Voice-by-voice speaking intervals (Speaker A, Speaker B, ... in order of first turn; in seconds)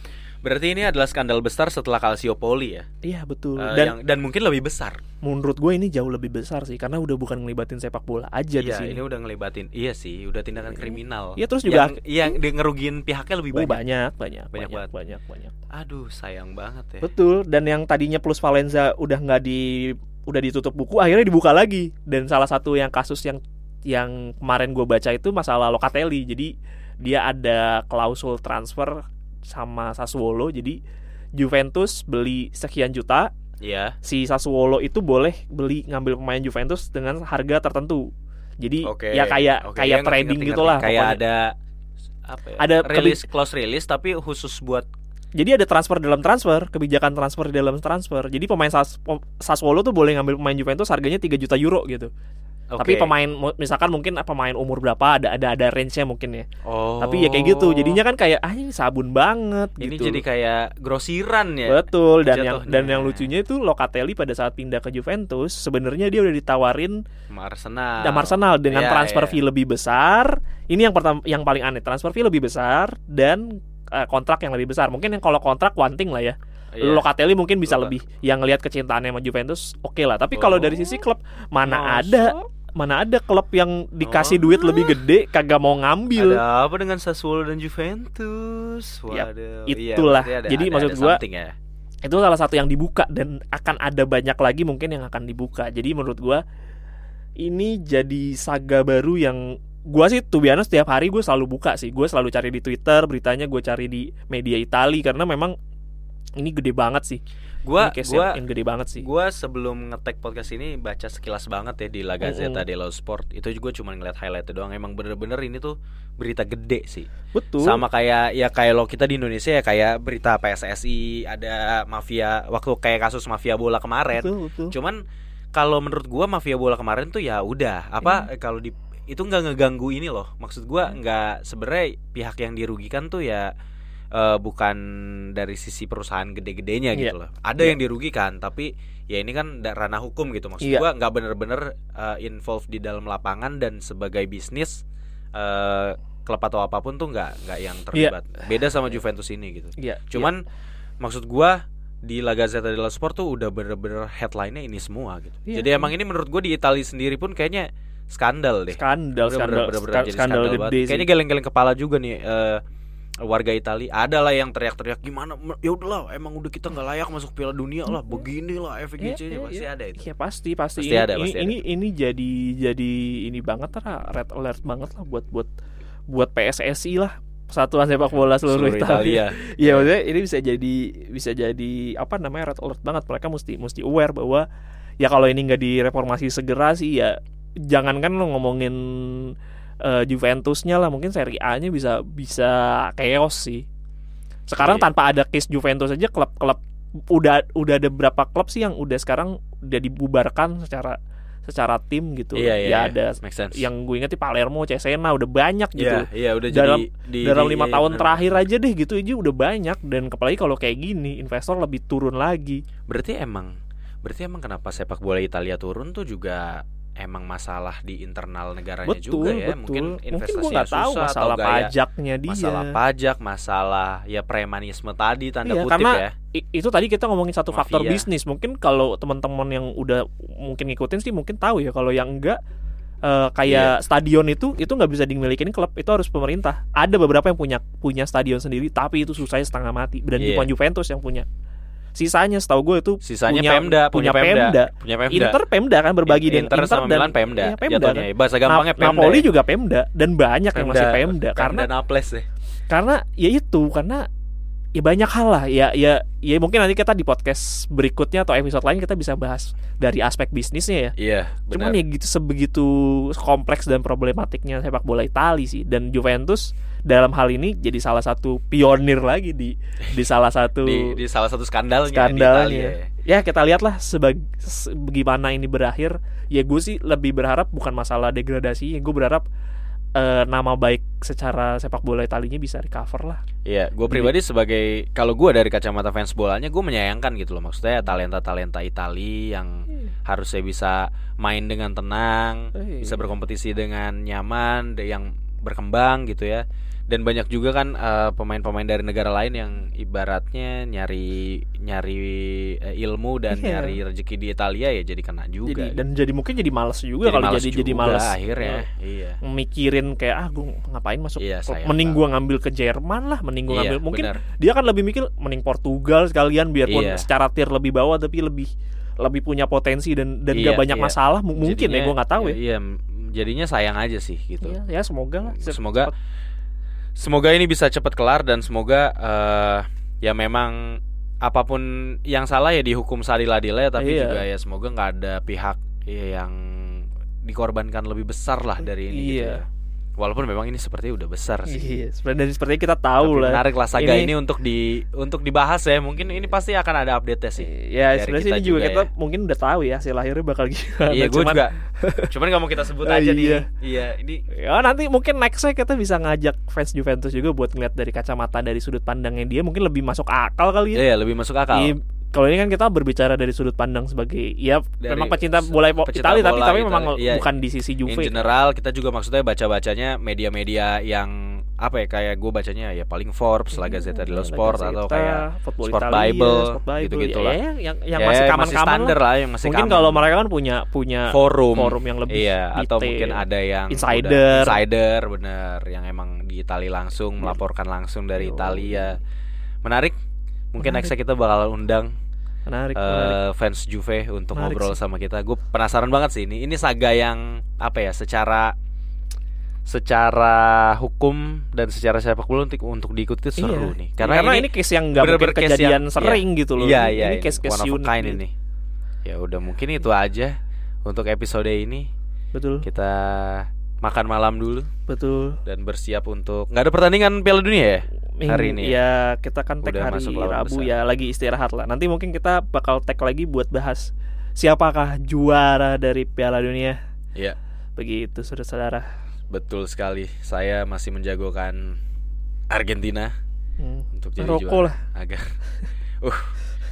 Speaker A: 0.4-2.9, 3.6-5.0, 8.6-13.8, 14.5-14.9, 15.7-17.1, 33.6-34.0, 38.9-41.5, 42.3-44.9, 52.7-53.1, 56.6-58.0, 59.8-63.3, 67.3-69.4, 76.7-77.0, 77.7-77.9, 80.3-81.0, 81.6-82.5, 84.0-85.0, 86.2-91.5, 107.6-108.4, 109.0-117.1, 117.6-125.0, 125.5-133.5, 134.1-144.8, 145.3-150.4, 151.0-162.6, 163.2-170.1, 170.8-171.6, 178.4-179.9, 194.6-194.9, 202.3-203.7, 205.8-208.4, 212.9-213.5, 214.0-221.7, 222.3-226.1, 227.5-228.1, 233.5-233.7, 240.2-240.5, 243.0-245.4, 246.1-249.3, 250.6-252.3, 261.0-261.8, 270.6-272.9, 283.4-305.8, 307.0-309.2, 311.2-312.0, 313.5-314.2, 316.7-317.1, 320.3-324.6, 325.3-325.9, 326.9-339.5, 340.0-341.7, 343.0-348.9, 350.9-351.5, 352.1-354.2, 360.7-361.7, 364.8-367.3, 367.9-377.4, 378.0-380.1, 381.1-389.0, 389.6-389.9, 390.5-391.9, 392.7-398.5, 399.7-408.3, 409.1-411.9, 412.6-414.7, 415.4-418.8, 419.6-420.7, 429.3-431.8, 432.5-433.1, 433.9-435.3, 436.0-436.4
Speaker B: 3.0-4.0, 5.2-9.0, 10.7-12.0, 13.5-15.5, 17.0-30.8, 31.4-33.3, 34.0-38.1, 38.6-41.2, 42.6-43.2, 45.4-52.1, 52.8-56.5, 57.0-60.2, 61.7-67.0, 68.0-86.4, 89.1-91.2, 92.0-96.4, 97.4-105.5, 106.4-107.2, 107.8-109.1, 112.2-112.6, 117.3-117.8, 124.1-124.7, 136.9-137.8, 149.8-150.3, 155.5-155.9, 158.7-161.1, 169.0-175.5, 176.1-184.4, 185.0-187.2, 187.7-193.7, 194.5-196.6, 197.1-200.9, 201.5-212.6, 218.9-222.8, 225.4-232.4, 233.0-241.3, 241.9-251.7, 252.7-254.1, 254.7-260.9, 261.5-270.9, 271.9-279.2, 279.9-283.2, 292.6-293.1, 303.3-303.8, 305.4-308.7, 309.2-322.4, 324.4-325.9, 333.8-334.2, 338.9-339.4, 341.5-344.1, 347.4-352.1, 352.8-353.5, 354.3-360.8, 361.5-368.1, 373.5-384.6, 388.2-388.9, 390.6-390.9, 392.5-393.2, 394.3-394.8, 403.4-408.2, 412.4-412.7, 414.9-415.4, 418.2-426.8, 427.8-428.9, 433.6-434.8